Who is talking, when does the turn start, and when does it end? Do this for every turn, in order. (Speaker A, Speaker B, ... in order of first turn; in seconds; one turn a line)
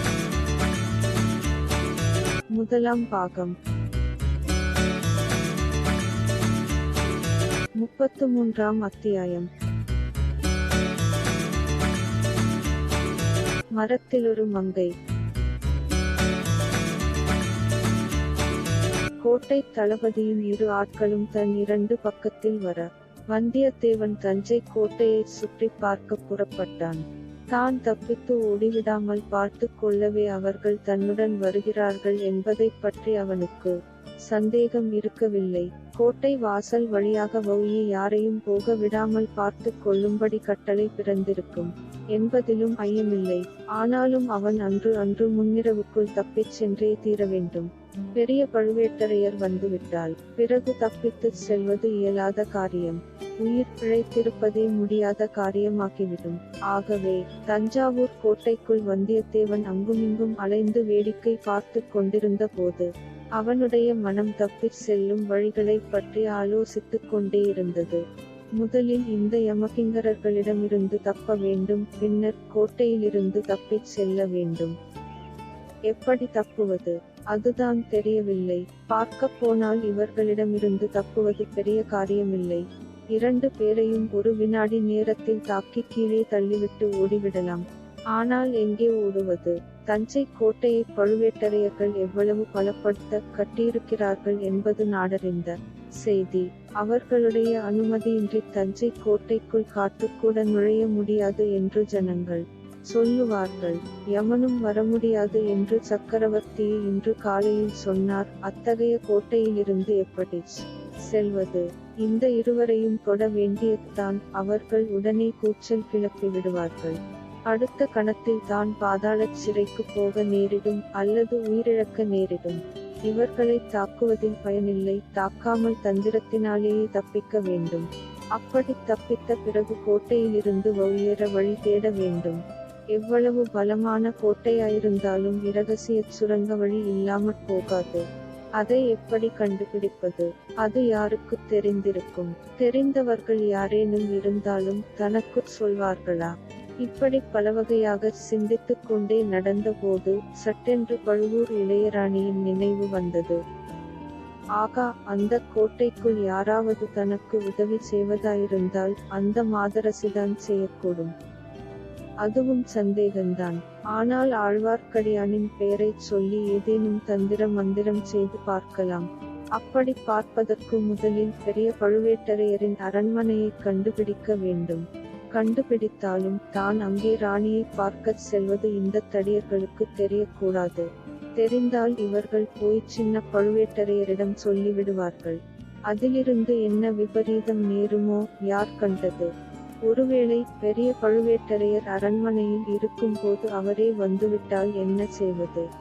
Speaker A: 2.5-3.5
Speaker A: 7.8-9.5
Speaker A: 13.7-14.9
Speaker A: 19.2-33.7
Speaker A: 34.3-68.0
Speaker A: 68.6-74.7
Speaker A: 75.9-82.6
Speaker A: 83.1-117.0
Speaker A: 117.5-132.4
Speaker A: 132.9-138.0
Speaker A: 138.6-146.3
Speaker A: 146.8-153.4
Speaker A: 154.6-161.1
Speaker A: 162.2-169.1
Speaker A: 169.6-174.8
Speaker A: 175.3-180.9
Speaker A: 181.4-185.4
Speaker A: 185.9-189.3
Speaker A: 189.8-195.7